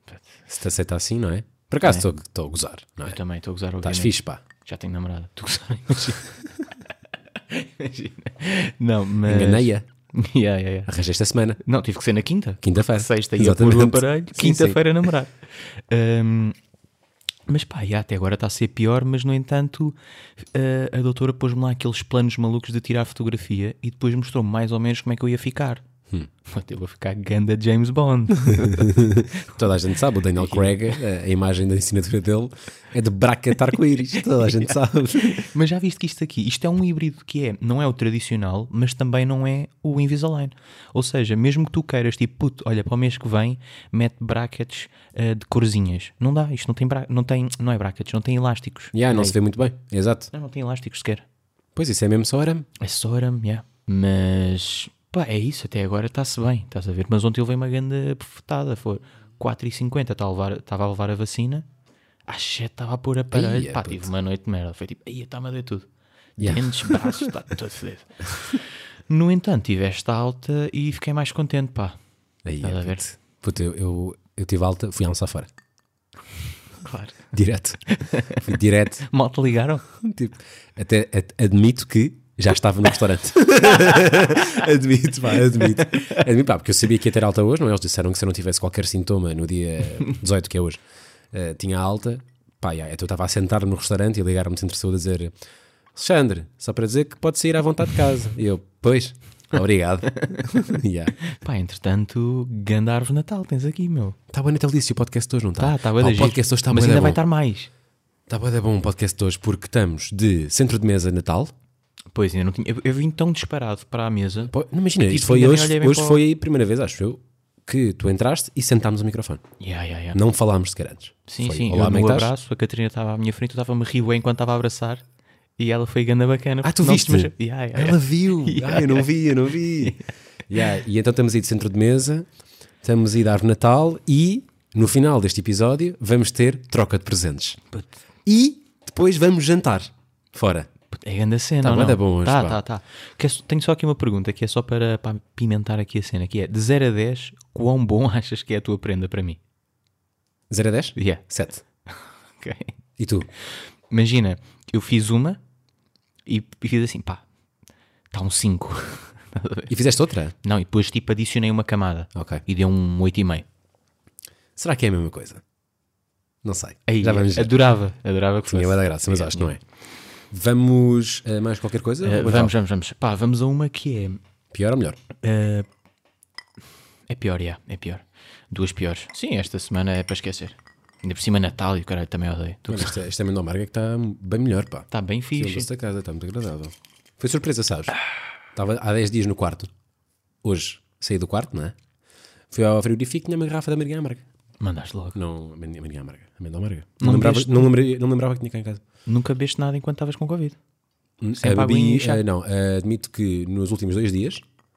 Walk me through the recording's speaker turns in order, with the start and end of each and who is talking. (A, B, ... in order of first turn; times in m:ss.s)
0:00.4-0:03.2 A
0:03.0-0:06.4 B
0:03.8-0:04.4 A
0:07.5-0:10.9 B
0:09.2-0:09.8 A
0:10.9-0:11.6 A
0:11.6-0:16.5 B
0:12.6-0:14.8 A
0:17.5-0:25.8 B
0:26.4-0:29.6 B
0:28.4-0:35.5 A
0:30.4-0:30.7 B
0:35.4-0:49.3 B
0:48.9-0:50.3 A
0:50.3-0:51.2 B
0:51.8-0:52.7 A
0:52.8-1:01.6 B
1:02.3-1:05.9 B
1:03.3-1:04.1 A
1:06.4-1:07.3 A
1:06.4-1:12.0 B
1:12.4-1:15.5 A
1:12.6-1:13.0 B
1:16.8-1:17.2 B
1:17.3-1:19.0 A
1:17.9-1:18.4 B
1:19.0-1:19.8 B
1:20.0-1:30.8 A
1:25.9-1:26.2 B
1:31.3-1:35.3 A
1:35.9-1:41.2 A
1:41.2-1:44.2 B
1:44.3-1:47.2 A
1:45.6-1:47.7 B
1:48.3-1:51.5 A
1:52.1-1:56.2 B
1:54.5-1:59.4 A
1:59.6-2:00.2 B
2:00.1-2:02.3 A
2:01.3-2:05.0 B
2:05.6-2:09.1 B
2:06.6-2:10.0 A
2:10.5-2:12.3 A
2:12.8-2:17.6 A
2:18.2-2:20.7 A
2:20.9-2:29.4 B
2:21.6-2:22.6 A
2:30.5-2:31.6 A
2:31.0-2:31.2 B
2:31.9-2:32.7 B
2:33.0-2:33.3 A
2:33.9-2:35.4 B
2:36.2-2:37.2 B
2:38.1-2:39.7 B
2:39.7-2:40.3 A
2:40.4-2:43.4 B
2:42.1-2:42.4 A
2:44.6-2:45.4 A
2:46.4-2:47.5 A
2:46.9-2:49.5 B
2:48.5-2:49.6 A
2:50.3-2:52.5 A
2:52.0-2:54.2 B
2:54.5-2:55.0 A
2:55.2-2:55.7 B
2:57.1-3:03.0 B
3:02.7-3:07.9 A
3:04.9-3:05.7 B
3:08.5-3:09.7 A
3:10.4-3:11.8 A
3:12.5-3:14.2 A
3:14.6-3:15.2 B
3:15.1-3:18.8 A
3:17.0-3:17.7 B
3:19.0-3:20.6 B
3:21.2-3:24.4 A
3:21.4-3:22.2 B